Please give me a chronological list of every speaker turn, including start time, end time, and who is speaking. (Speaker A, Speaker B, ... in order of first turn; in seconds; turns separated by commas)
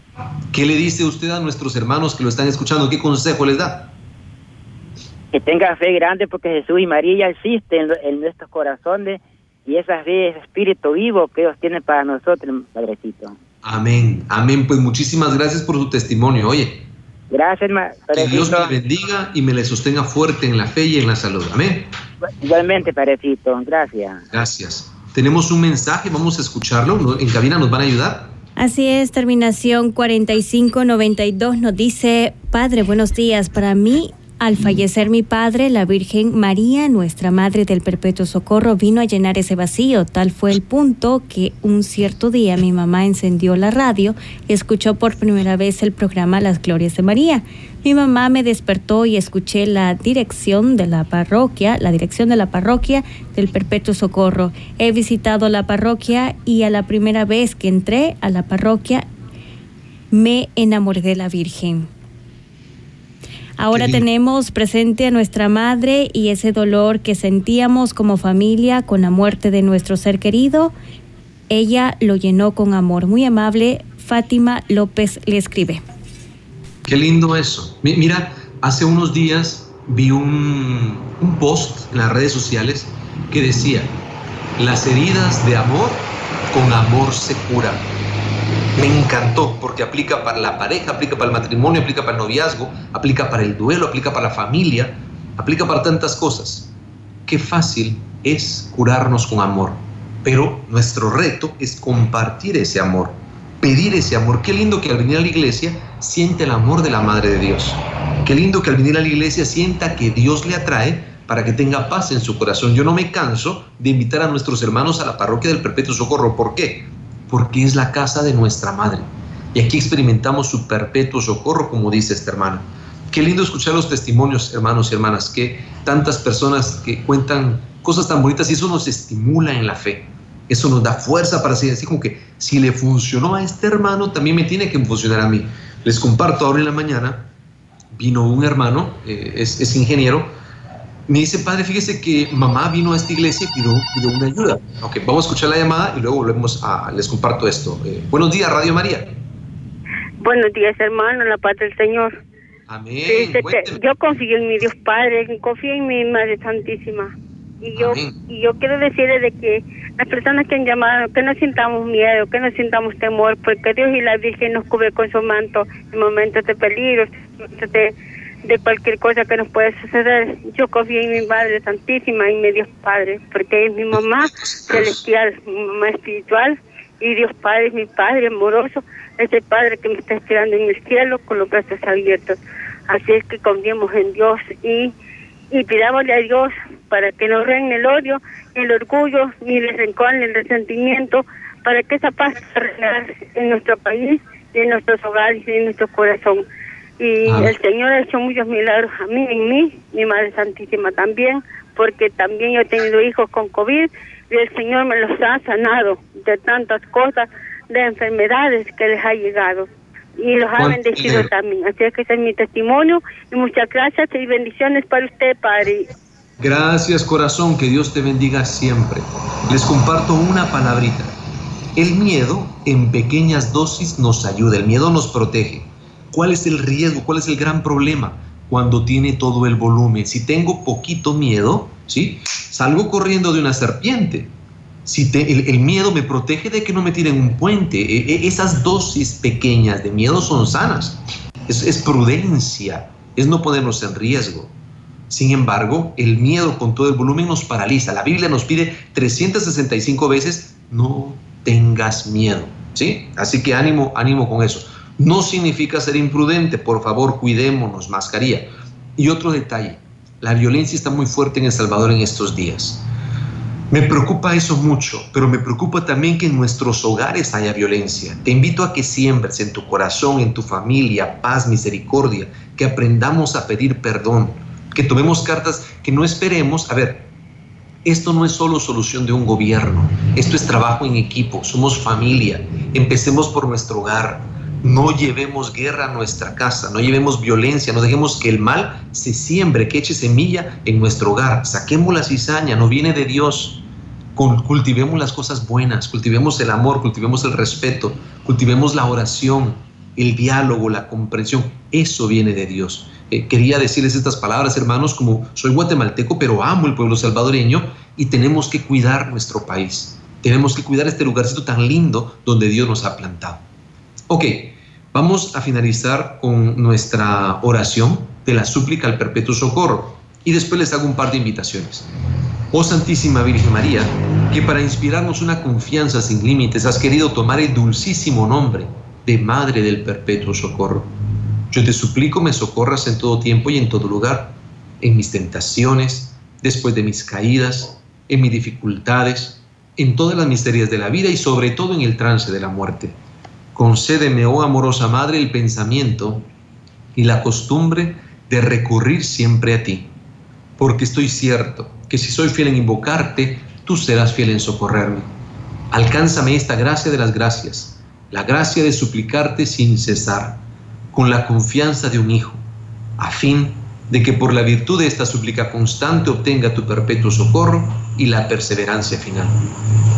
Speaker A: 0.5-3.9, Speaker B: 5.3-13.4, Speaker A: 13.6-16.9, Speaker B: 17.3-18.7, Speaker A: 18.1-21.9, Speaker B: 22.2-24.2, Speaker A: 24.3-28.3, Speaker C: 28.6-59.1, Speaker C: 60.1-61.9, Speaker C: 63.6-70.7, Speaker A: 63.7-64.0, Speaker C: 71.5-75.8, Speaker A: 76.8-84.0, Speaker A: 84.6-87.9, Speaker A: 88.8-96.7, Speaker A: 97.2-137.3, Speaker A: 137.9-140.3, Speaker A: 141.1-149.2, Speaker D: 150.2-152.1, Speaker A: 152.7-153.8, Speaker D: 153.1-182.3, Speaker A: 157.7-158.1, Speaker A: 173.9-175.0, Speaker D: 182.9-184.9, Speaker D: 185.5-196.4, Speaker D: 197.0-215.9, Speaker A: 197.2-197.5, Speaker A: 210.6-211.3, Speaker A: 216.4-221.2, Speaker A: 221.8-234.3, Speaker A: 234.8-244.5, Speaker A: 245.1-262.8, Speaker A: 263.7-277.1, Speaker A: 277.8-293.6, Speaker A: 294.1-313.4, Speaker A: 314.1-321.9, Speaker A: 322.5-330.9, Speaker A: 331.5-343.0, Speaker A: 343.5-346.3, Speaker A: 346.9-349.9, Speaker A: 350.6-355.1, Speaker A: 355.7-360.4, Speaker A: 360.9-362.4, Speaker A: 363.0-369.4